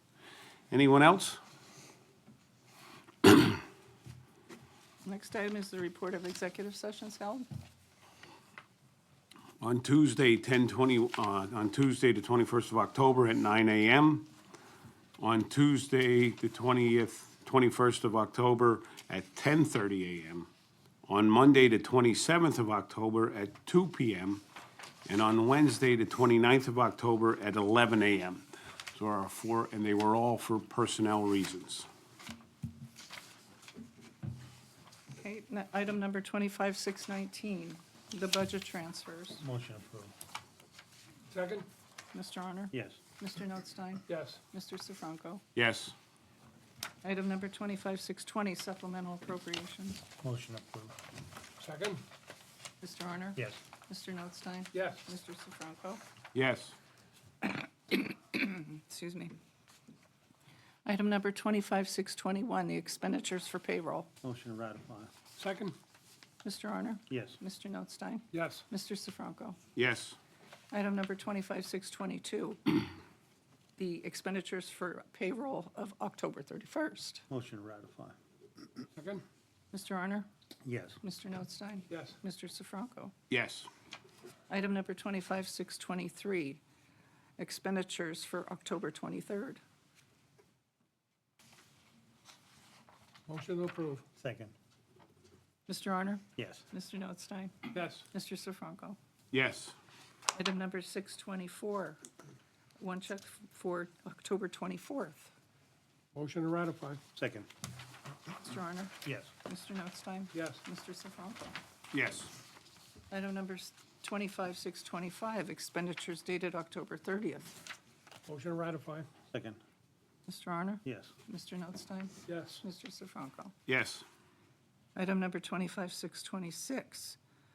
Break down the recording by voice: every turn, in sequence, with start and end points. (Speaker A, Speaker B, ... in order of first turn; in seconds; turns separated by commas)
Speaker A: 0.7-1.4, Speaker B: 5.0-7.5, Speaker A: 9.6-14.3, Speaker A: 15.2-20.5, Speaker A: 21.1-24.4, Speaker A: 25.1-31.9, Speaker B: 35.1-39.4, Speaker C: 39.4-40.1, Speaker D: 41.3-41.6, Speaker B: 42.1-45.4, Speaker C: 42.7-43.0, Speaker D: 44.1-44.4, Speaker A: 45.5-45.9, Speaker B: 47.0-50.0, Speaker C: 50.2-50.9, Speaker D: 51.6-52.0, Speaker B: 52.8-56.0, Speaker C: 53.4-53.6, Speaker D: 54.7-55.0, Speaker A: 56.3-56.7, Speaker B: 57.4-59.3, Speaker B: 60.8-64.1, Speaker C: 64.2-65.1, Speaker D: 65.4-65.7, Speaker B: 66.4-69.6, Speaker C: 67.1-67.4, Speaker D: 68.3-68.6, Speaker A: 69.7-70.2, Speaker B: 70.7-72.8, Speaker B: 73.8-77.2, Speaker C: 77.3-78.2, Speaker D: 79.0-79.2, Speaker B: 79.7-80.3, Speaker C: 80.6-81.0, Speaker B: 81.0-83.1, Speaker D: 81.9-82.2, Speaker A: 83.3-83.7, Speaker B: 84.5-86.6, Speaker B: 87.4-89.6, Speaker D: 93.3-94.0, Speaker C: 94.2-94.5, Speaker B: 95.7-99.0, Speaker C: 96.3-96.7, Speaker D: 97.7-98.0, Speaker A: 99.3-99.7, Speaker B: 100.3-102.0, Speaker B: 102.8-105.3, Speaker D: 106.1-107.0, Speaker C: 107.2-107.5, Speaker B: 108.4-111.5, Speaker C: 109.0-109.3, Speaker D: 110.3-110.6, Speaker A: 111.9-112.3, Speaker B: 113.1-117.5, Speaker D: 118.3-119.1, Speaker C: 119.3-119.6, Speaker B: 120.3-123.5, Speaker C: 120.8-121.1, Speaker D: 122.3-122.6, Speaker A: 123.7-124.0, Speaker B: 124.9-127.2